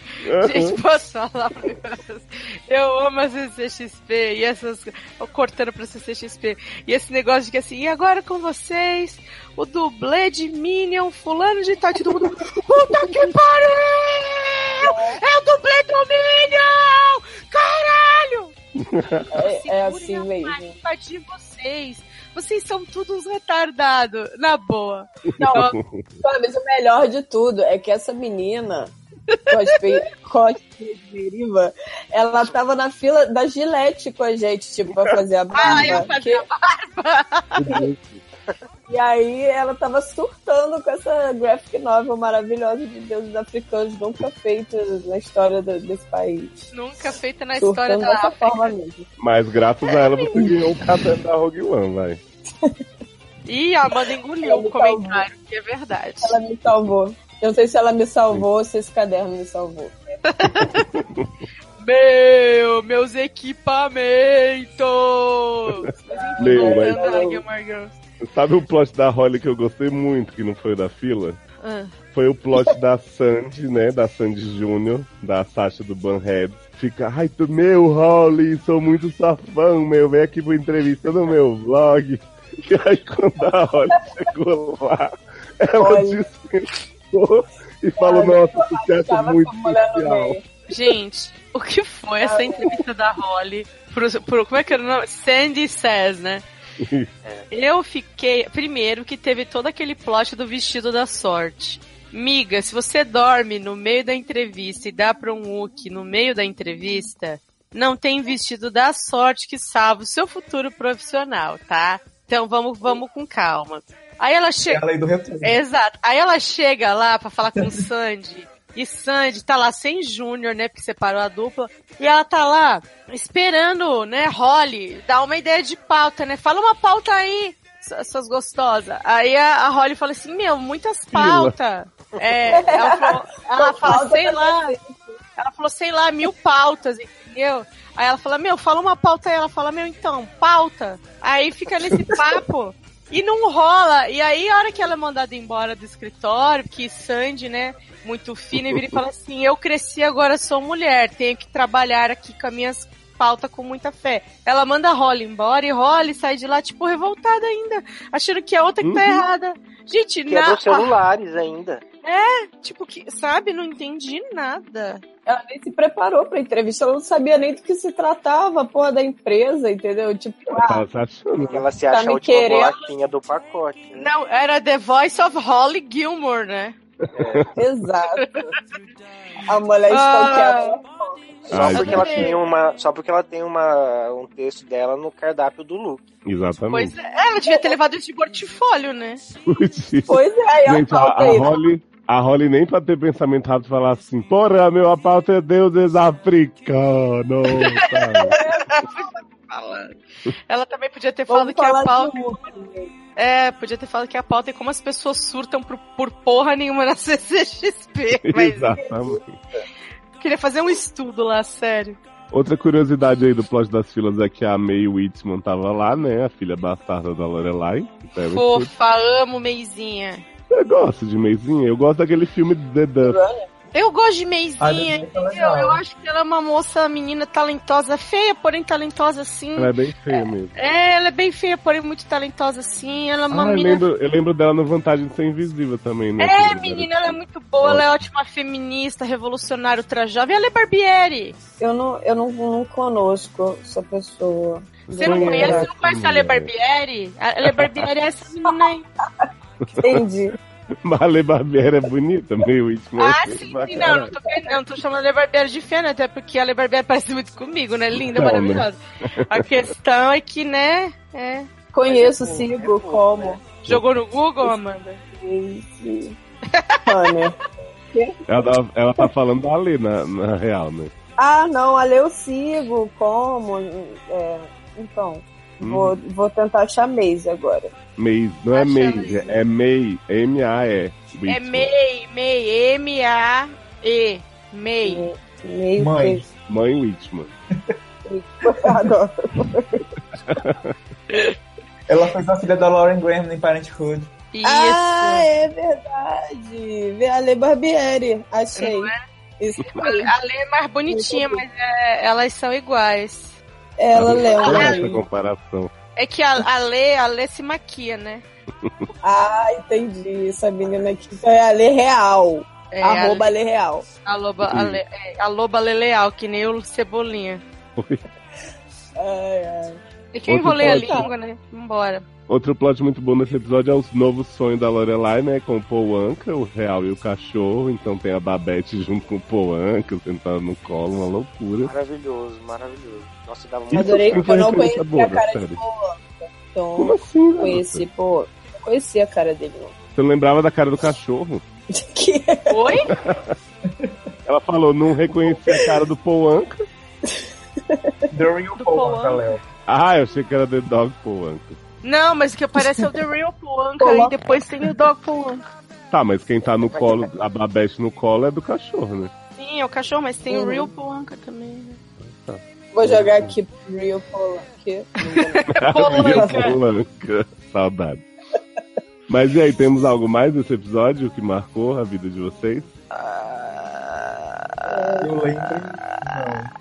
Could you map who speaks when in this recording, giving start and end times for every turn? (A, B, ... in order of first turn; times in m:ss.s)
0:00.2-0:00.8 A
0:00.4-0:18.5 B
0:14.8-0:15.2 C
0:18.8-0:19.3 A
0:19.3-0:20.7 C
0:19.3-0:25.8 B
0:25.4-0:25.6 C
0:25.4-0:26.0 A
0:26.2-0:28.9 C
0:29.5-0:36.4 C
0:35.5-0:37.6 B
0:35.6-0:36.0 A
0:37.6-0:38.2 A
0:38.9-0:46.6 C
0:46.7-0:48.7 B
0:47.6-0:49.0 C
0:49.2-0:52.2 A
0:49.9-0:50.3 B
0:53.4-0:56.4 B
0:54.4-0:55.2 C
0:56.2-1:00.1 C
1:00.3-1:00.8 B
1:00.6-1:01.3 A
1:01.8-1:08.0 B
1:05.7-1:07.2 A
1:06.1-1:07.4 C
1:08.2-1:11.4 A
1:11.6-1:12.0 B
1:12.1-1:30.4 A
1:25.8-1:26.2 C
1:28.0-1:30.4 C
1:30.7-1:36.4 B
1:32.2-1:32.8 C
1:36.8-1:37.1 A
1:37.5-1:54.8 B
1:54.7-1:55.6 D
1:55.4-2:14.6 B
2:11.1-2:11.5 A
2:12.5-2:15.0 C
2:15.4-2:40.9 B
2:28.6-2:29.0 A
2:38.8-2:39.2 A
2:40.3-2:41.8 E
2:42.0-2:45.0 B
2:45.3-2:50.8 C
2:50.5-2:51.7 A
2:51.4-2:54.1 E
2:51.9-2:52.8 C
2:53.9-2:56.8 B
2:57.1-2:57.5 A
2:57.1-2:57.4 E
2:57.5-2:58.5 C
2:59.5-3:02.2 C
2:59.9-3:00.8 B
3:01.5-3:02.2 A
3:01.5-3:06.0 E
3:01.7-3:02.4 B
3:06.2-3:06.9 A
3:06.7-3:09.2 B
3:07.4-3:07.7 C
3:09.5-3:18.4 A
3:10.1-3:11.5 C
3:17.5-3:20.0 B
3:18.2-3:18.6 C
3:20.5-3:22.4 B
3:21.3-3:22.9 C
3:23.2-3:28.7 B
3:28.2-3:29.4 A
3:30.2-3:32.0 B
3:32.3-3:38.7 A
3:38.3-3:40.2 B
3:40.5-3:43.2 A
3:43.0-3:43.5 C
3:43.7-3:53.8 B
3:44.6-3:45.8 D
3:49.6-3:50.6 A
3:53.3-3:57.9 A
3:56.2-4:01.4 B
4:01.6-4:05.7 C
4:04.9-4:06.5 A
4:05.0-4:08.8 B
4:07.4-4:07.9 A
4:09.6-4:10.0 A
4:09.8-4:10.3 C
4:10.8-4:14.1 A
4:13.0-4:18.8 B
4:14.2-4:14.6 C
4:18.0-4:19.5 A
4:19.3-4:21.5 B
4:21.7-4:23.4 C
4:21.9-4:23.5 E
4:23.6-4:25.0 B
4:25.1-4:26.2 C
4:26.5-4:27.2 B
4:26.8-4:27.4 C
4:27.9-4:28.2 C
4:28.3-4:30.9 A
4:31.2-4:37.7 C
4:35.6-4:36.0 A
4:38.0-4:41.7 A
4:38.5-4:39.2 B
4:41.3-4:45.1 B
4:44.8-4:46.2 C
4:45.8-4:46.3 D
4:46.5-4:47.3 A
4:48.1-4:49.8 C
4:50.3-4:50.7 A
4:51.9-4:54.1 D
4:54.3-4:55.3 B
4:54.4-5:00.1 C
4:58.6-4:59.0 B
4:59.8-5:03.4 B
5:00.9-5:01.4 C
5:03.8-5:05.0 C
5:03.9-5:05.7 A
5:04.4-5:04.9 B
5:06.0-5:08.2 B
5:08.6-5:08.9 A
5:09.0-5:13.8 C
5:12.7-5:13.3 B
5:14.0-5:17.4 B
5:14.4-5:14.8 A
5:17.8-5:18.0 A
5:19.0-5:19.8 C
5:20.1-5:22.0 B
5:20.3-5:21.1 A
5:20.5-5:21.1 C
5:22.3-5:31.7 A
5:31.6-5:34.2 E
5:33.7-5:35.6 A
5:33.7-5:39.7 C
5:36.8-5:37.8 A
5:40.0-5:41.4 A
5:41.7-5:42.7 C
5:42.5-5:42.9 B
5:42.9-5:43.3 A
5:44.3-5:46.6 A
5:47.1-5:47.9 C
5:48.1-5:49.4 D
5:48.6-5:49.3 B
5:49.7-5:51.6 A
5:51.8-5:55.4 B
5:53.8-5:54.7 C
5:55.9-5:59.1 A
5:59.4-6:01.8 B
6:00.3-6:00.7 C
6:02.0-6:03.3 A
6:02.7-6:05.5 C
6:05.2-6:06.6 B
6:05.5-6:08.0 A
6:06.0-6:06.3 D
6:06.1-6:06.5 C
6:09.1-6:12.7 A
6:12.9-6:15.0 B
6:14.6-6:15.1 C
6:15.0-6:16.5 D